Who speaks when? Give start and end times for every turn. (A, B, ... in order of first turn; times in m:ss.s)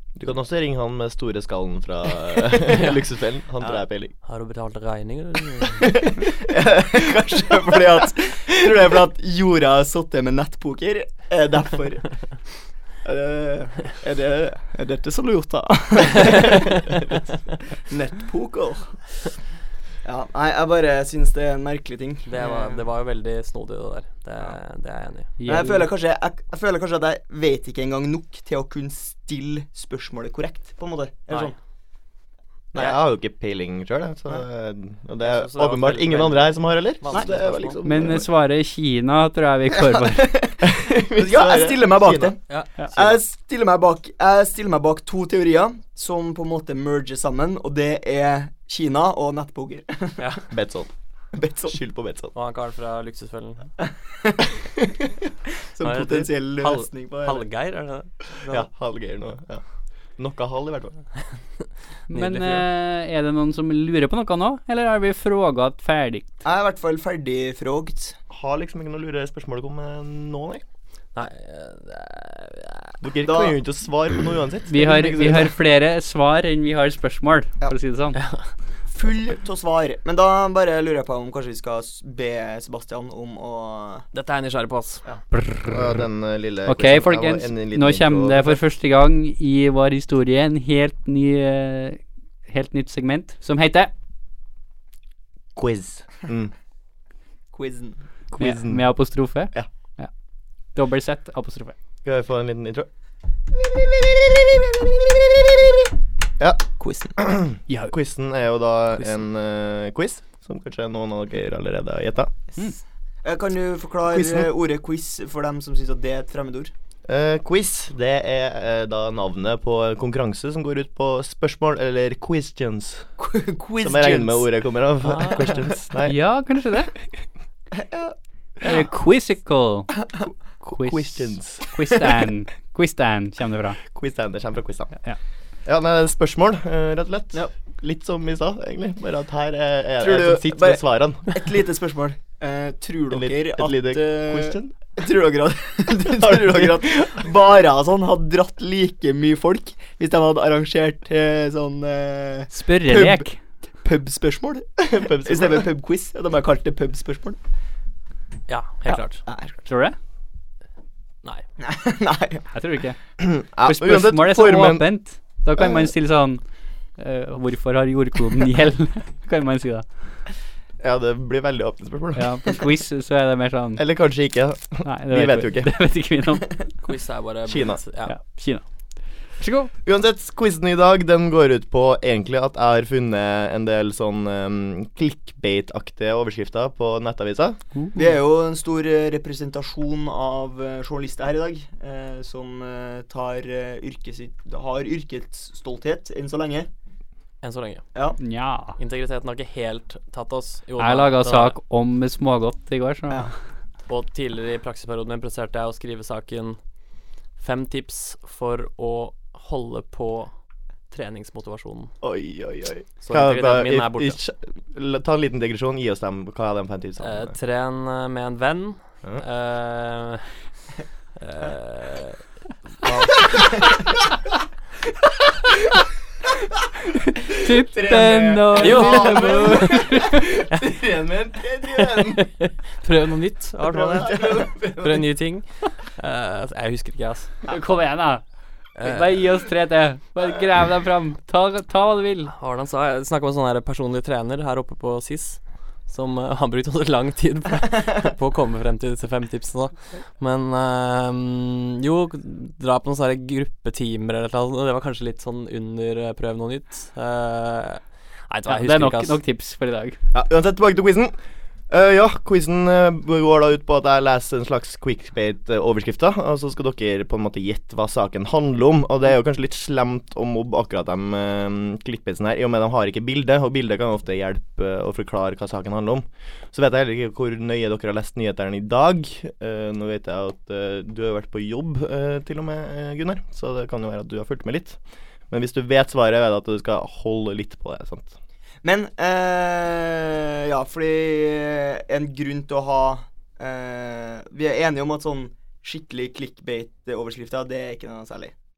0:00.2-0:04.1 A
0:02.7-0:03.0 B
0:04.2-0:06.0 B
0:06.0-0:12.4 C
0:13.0-0:19.2 C
0:20.0-0:22.8 C
0:22.3-0:25.3 B
0:25.4-0:25.9 D
0:25.5-0:31.6 C
0:32.8-0:38.3 A
0:35.2-0:37.8 B
0:37.1-0:37.4 C
0:37.8-0:40.4 D
0:39.9-0:42.4 C
0:40.6-0:42.4 A
0:42.5-0:43.2 B
0:42.9-0:50.4 C
0:50.5-0:50.9 A
0:51.3-0:51.8 C
0:51.7-0:52.3 A
0:52.3-0:53.7 B
0:53.8-0:54.9 C
0:55.8-0:57.4 C
0:55.8-0:58.3 B
0:58.5-0:59.6 A
1:00.2-1:01.0 A
1:02.1-1:06.3 D
1:02.1-1:02.6 B
1:06.4-1:08.2 C
1:08.3-1:10.6 A
1:11.2-1:13.0 B
1:13.0-1:15.5 A
1:13.2-1:13.6 C
1:14.7-1:18.2 D
1:18.2-1:18.4 B
1:18.9-1:24.1 C
1:24.1-1:25.0 B
1:25.3-1:26.0 D
1:25.6-1:28.6 A
1:26.6-1:33.9 D
1:35.6-1:36.5 A
1:37.5-1:38.0 C
1:38.3-1:38.9 A
1:38.4-1:40.1 D
1:40.8-1:41.8 D
1:42.0-1:42.9 A
1:46.4-1:52.3 A
1:46.8-1:47.2 C
1:47.7-1:47.9 D
1:52.5-1:56.7 C
1:54.0-1:54.5 A
1:57.1-2:03.1 A
2:03.2-2:04.5 C
2:03.8-2:06.2 A
2:05.0-2:05.6 B
2:06.0-2:06.9 D
2:07.7-2:08.2 C
2:08.6-2:10.0 D
2:10.6-2:11.6 A
2:10.7-2:13.8 D
2:13.9-2:14.9 A
2:15.6-2:21.3 A
2:20.0-2:33.2 C
2:23.1-2:24.7 A
2:26.1-2:27.2 A
2:32.5-2:33.4 D
2:33.8-2:37.4 C
2:34.9-2:35.7 A
2:38.5-2:39.2 B
2:38.9-2:39.6 C
2:39.7-2:40.0 D
2:41.6-2:42.5 C
2:42.5-2:43.0 D
2:43.2-2:44.9 A
2:43.6-2:46.4 D
2:47.0-2:49.9 D
2:50.8-2:52.6 A
2:52.2-2:53.8 D
2:53.8-2:55.7 A
2:54.8-2:56.6 D
2:56.8-2:58.2 B
2:57.5-2:57.8 A
2:58.1-2:58.6 D
2:59.4-2:59.7 D
2:59.8-3:07.6 A
3:07.8-3:08.1 D
3:08.0-3:16.7 C
3:17.4-3:17.8 B
3:18.2-3:18.8 D
3:18.8-3:21.6 B
3:20.8-3:23.3 D
3:23.9-3:26.6 B
3:27.4-3:30.3 B
3:30.9-3:31.9 B
3:32.0-3:37.3 A
3:33.0-3:34.2 B
3:37.0-3:40.3 B
3:41.2-3:42.2 B
3:42.8-3:43.8 B
3:47.4-3:50.3 D
3:47.4-3:52.3 A
3:48.5-3:48.8 C
3:48.6-3:49.8 B
3:51.8-3:57.4 B
3:53.7-3:54.7 C
3:54.0-3:55.0 A
3:57.5-3:58.2 D
3:58.8-3:59.2 B
3:58.8-4:02.3 D
4:02.3-4:19.2 B
4:18.5-4:20.0 D
4:20.1-4:21.1 A
4:21.7-4:44.8 A
4:45.3-4:48.2 A
4:48.6-4:58.4 C